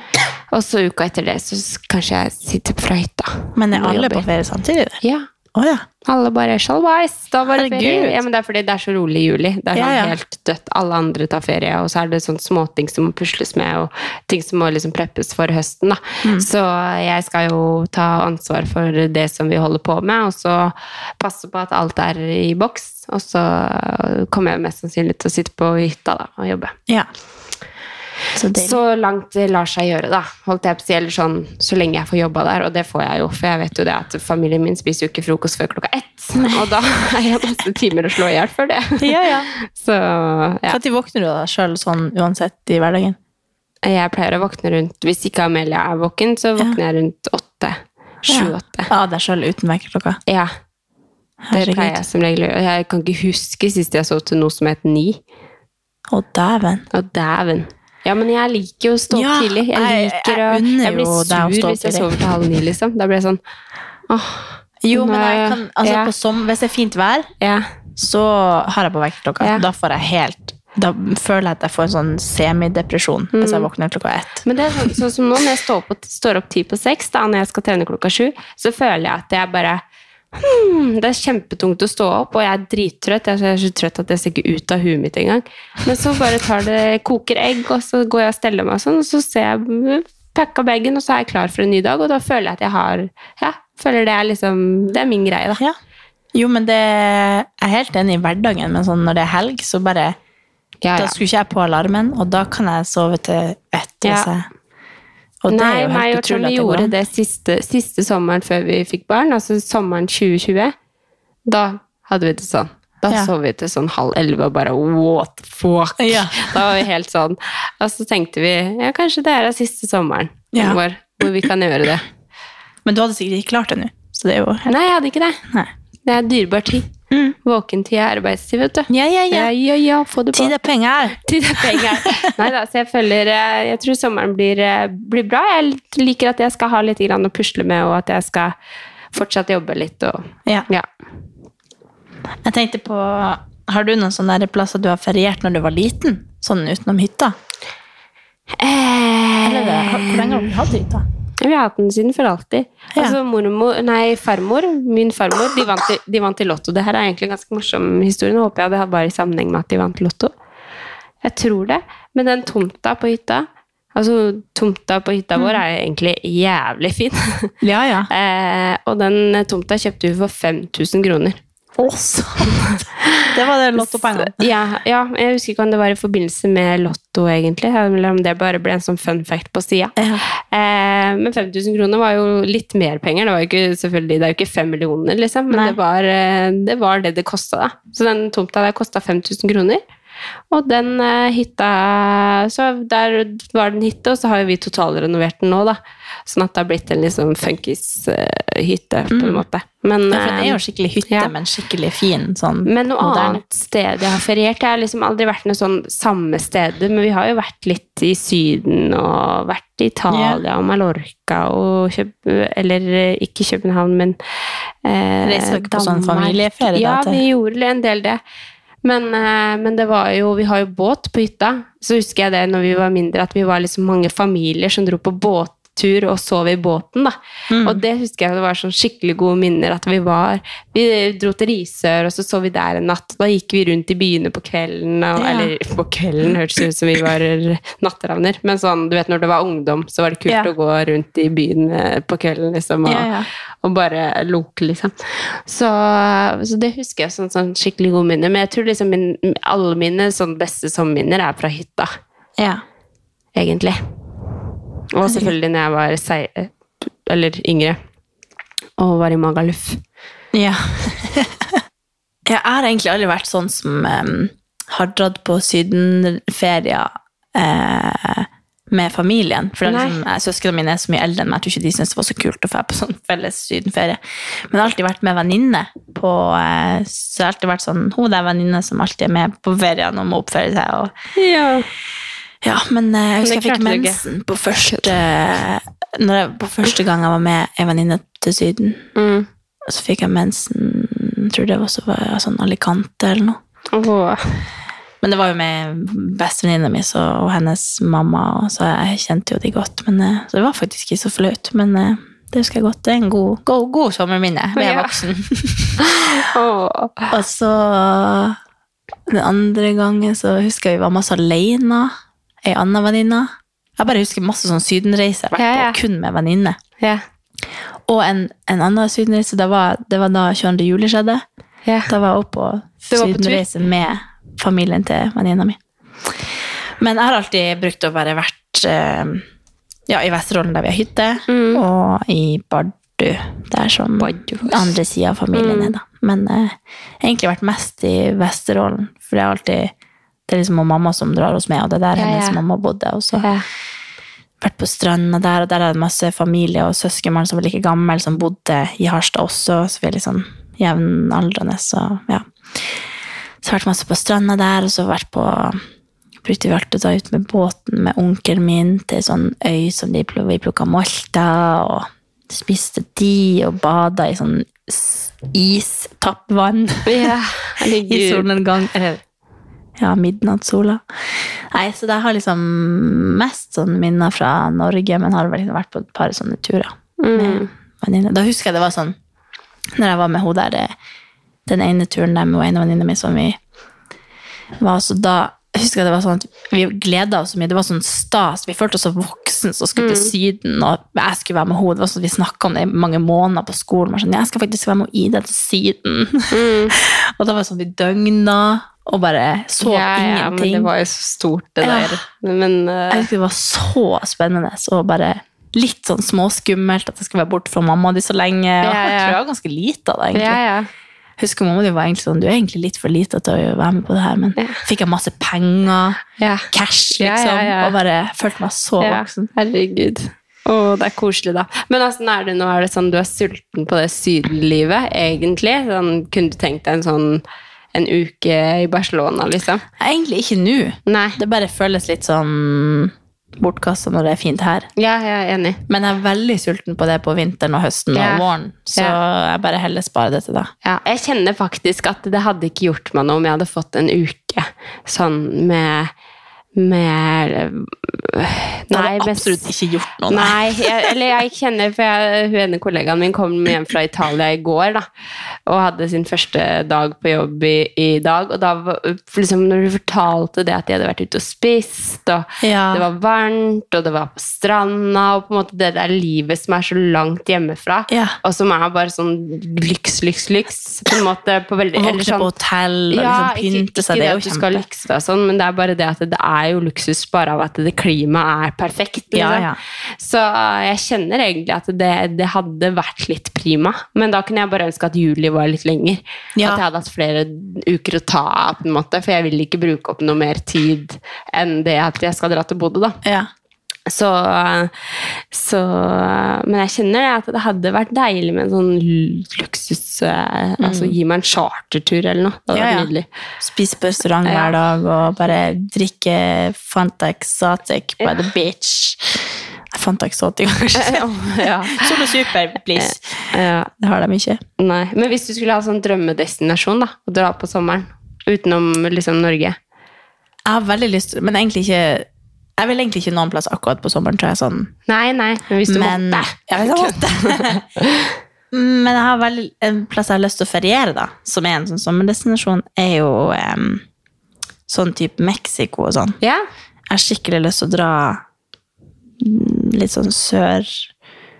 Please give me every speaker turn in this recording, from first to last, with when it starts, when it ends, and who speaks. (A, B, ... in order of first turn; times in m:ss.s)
0:00.5-0:04.2 A
0:03.6-0:05.0 B
0:05.0-0:05.3 A
0:05.5-0:05.8 B
0:06.0-0:26.7 A
0:07.5-0:08.2 B
0:09.7-0:10.1 B
0:28.3-0:28.8 B
0:28.5-0:40.8 A
0:36.4-0:36.7 B
0:39.0-0:39.5 B
0:40.7-0:43.2 B
0:43.8-0:48.9 A
0:48.3-0:50.2 B
0:51.4-0:52.0 B
0:51.5-0:55.2 A
0:56.1-0:56.8 B
0:56.9-1:03.4 A
0:59.1-1:02.1 B
1:04.1-1:06.1 A
1:04.8-1:07.3 B
1:07.4-1:07.7 A
1:08.0-1:15.0 B
1:13.3-1:13.7 A
1:14.4-1:19.8 A
1:20.3-1:35.6 A
1:36.3-1:40.2 B
1:40.8-1:41.2 A
1:41.0-1:44.5 B
1:44.0-1:44.3 A
1:45.4-1:46.9 B
1:45.5-1:50.7 A
1:51.5-2:02.1 A
1:56.0-1:56.8 B
2:00.5-2:00.8 B
2:02.8-2:04.7 B
2:04.7-2:05.4 A
2:06.0-2:06.9 A
2:07.4-2:10.5 A
2:08.9-2:09.5 B
2:10.3-2:12.3 B
2:11.2-2:18.6 A
2:19.1-2:20.9 A
2:22.4-2:27.3 B
2:28.6-2:30.5 A
2:29.4-2:31.0 B
2:31.4-2:40.3 A
2:41.2-2:47.5 A
2:47.6-2:48.1 B
2:48.1-2:51.4 A
2:51.8-2:52.6 B
2:52.5-3:09.8 A
2:53.2-2:54.5 B
3:00.0-3:00.2 B
3:05.5-3:05.8 B
3:10.5-3:21.3 A
3:19.1-3:19.4 B
3:20.1-3:23.4 B
3:22.6-3:34.2 A
3:30.1-3:30.4 B
3:34.8-3:38.2 A
3:35.2-3:37.2 B
3:38.8-4:03.1 A
3:47.5-3:47.8 B
3:55.2-3:55.5 B
4:02.8-4:03.3 B
4:03.6-4:11.9 A
4:13.3-4:13.8 A
4:14.9-4:17.8 A
4:15.0-4:15.3 B
4:18.8-4:19.8 A
4:20.3-4:21.6 B
4:22.2-4:40.9 B
4:29.6-4:30.0 A
4:41.2-4:41.7 A
4:42.4-4:48.8 B
4:43.2-4:44.0 A
4:44.6-4:44.9 A
4:48.9-4:49.3 A
4:49.6-4:53.4 B
4:53.7-4:54.4 A
4:55.0-5:06.1 B
5:04.6-5:05.0 A
5:05.8-5:07.1 A
5:07.1-5:08.4 B
5:09.1-5:16.6 B
5:15.4-5:15.8 A
5:17.9-5:21.2 B
5:21.6-5:21.9 A
5:21.9-5:29.2 B
5:22.9-5:23.4 A
5:29.9-5:39.7 B
5:31.3-5:31.6 A
5:34.0-5:34.8 A
5:35.3-5:35.8 A
5:40.3-5:43.3 B
5:42.0-5:42.4 A
5:43.2-5:43.4 A
5:44.4-5:52.8 B
5:53.4-5:55.6 B
5:56.2-6:09.0 B
6:06.8-6:08.3 A
6:09.8-6:19.0 B
6:17.0-6:17.5 A
6:19.8-6:20.7 B
6:21.4-6:23.4 B
6:24.6-6:40.7 B
6:29.8-6:30.1 A
6:36.3-6:36.8 A
6:39.6-6:43.1 A
6:41.6-6:42.0 B
6:42.9-6:50.4 B
6:48.6-6:49.2 A
6:50.1-6:50.7 A
6:51.2-6:56.0 B
6:56.2-6:57.8 A
6:56.5-6:59.3 B
6:58.8-7:07.2 A
7:07.7-7:09.6 A
7:09.8-7:14.7 B
7:10.8-7:11.2 A
7:14.8-7:15.6 A
7:15.7-7:20.5 B
7:17.9-7:19.0 A
7:20.6-7:25.9 A
7:26.6-7:29.5 A
7:28.7-7:30.9 B
7:30.1-7:34.8 A
7:35.5-7:52.3 A
7:42.4-7:42.8 B
7:47.9-7:48.2 B
7:51.8-7:54.6 B
7:52.9-8:13.0 A
7:59.1-7:59.6 B
8:06.4-8:06.6 B
8:13.0-8:13.3 B
8:13.9-8:23.0 A
8:20.6-8:21.0 B
8:22.5-8:22.9 B
8:23.4-8:34.4 B
8:24.2-8:24.5 A
8:30.8-8:32.1 A
8:32.8-8:33.7 A
8:34.6-8:39.6 A
8:40.4-8:42.1 B
8:42.6-8:44.7 B
8:44.9-8:48.1 A
8:45.7-8:47.6 B
8:48.5-8:53.8 B
8:54.7-8:56.2 B
8:56.9-8:58.2 B
8:59.2-9:00.9 B